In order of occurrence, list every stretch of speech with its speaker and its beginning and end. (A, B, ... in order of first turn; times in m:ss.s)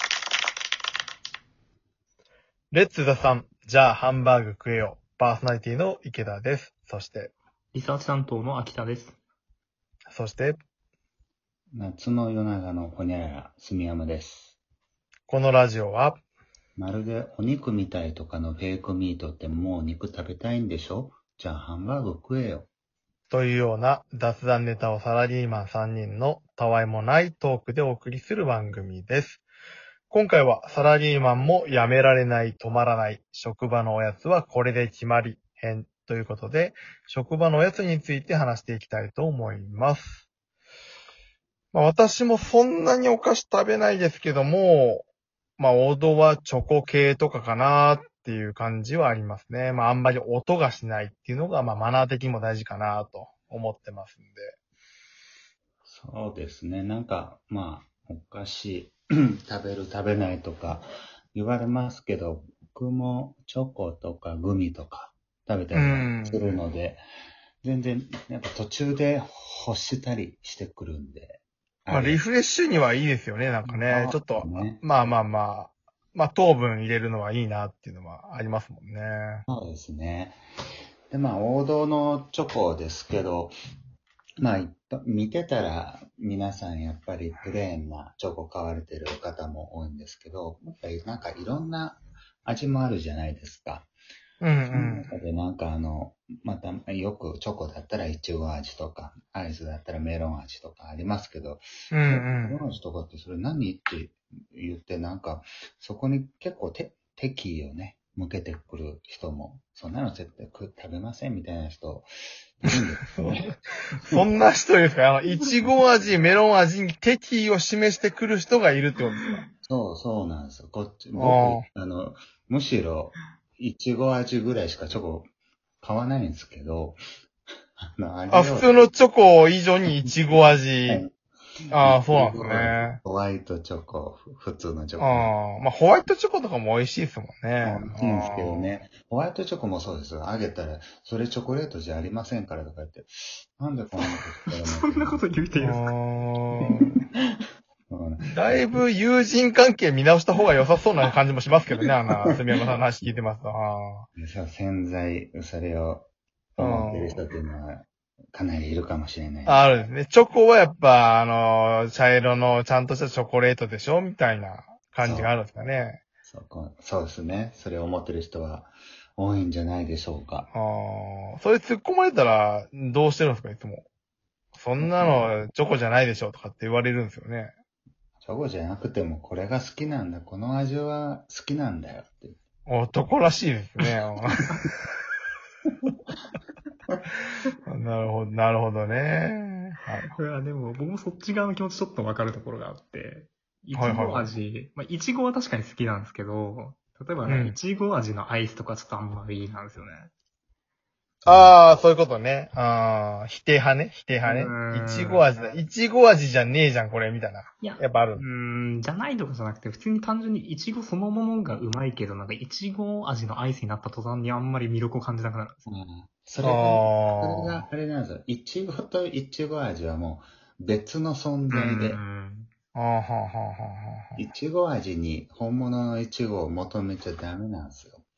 0:02.7-0:07.3 A
0:07.7-0:09.2 B
0:10.1-0:10.6 A
0:11.7-0:14.6 C
0:15.3-0:16.2 A
0:16.8-0:22.7 C
0:23.3-0:29.4 A
0:30.1-0:40.2 A
0:41.7-0:45.0 A
0:45.6-0:54.5 A
0:55.8-1:07.0 C
1:05.7-1:06.6 A
1:07.6-1:12.2 C
1:11.9-1:19.4 A
1:13.6-1:14.8 C
1:19.5-1:20.4 C
1:21.1-1:23.6 C
1:24.4-1:33.9 C
1:34.4-1:35.1 A
1:34.7-1:54.2 C
1:41.9-1:42.6 A
1:54.0-1:59.4 A
1:59.2-1:59.4 B
1:59.6-2:05.3 C
2:01.2-2:01.6 A
2:05.8-2:07.0 C
2:07.8-2:08.8 C
2:08.3-2:11.0 A
2:10.8-2:11.1 C
2:11.7-2:13.0 A
2:11.7-2:15.3 C
2:15.0-2:18.7 A
2:17.6-2:25.2 C
2:24.6-2:25.9 B
2:25.6-2:27.0 A
2:27.9-2:28.8 C
2:28.2-2:34.1 A
2:34.2-2:39.7 C
2:36.6-2:37.2 A
2:39.4-2:46.0 A
2:45.0-2:45.3 C
2:46.2-2:50.5 C
2:50.5-2:53.8 A
2:54.5-2:57.5 A
2:54.8-2:55.3 C
2:58.2-3:02.4 C
3:02.7-3:04.5 A
3:07.7-3:10.2 A
3:10.2-3:20.1 B
3:13.7-3:14.3 A
3:17.2-3:17.6 A
3:21.2-3:21.5 C
3:21.2-3:28.2 A
3:24.2-3:25.6 B
3:27.6-3:35.6 B
3:35.7-3:42.0 C
3:36.4-3:37.6 A
3:41.5-3:42.5 B
3:42.7-3:44.2 A
3:44.2-3:48.0 C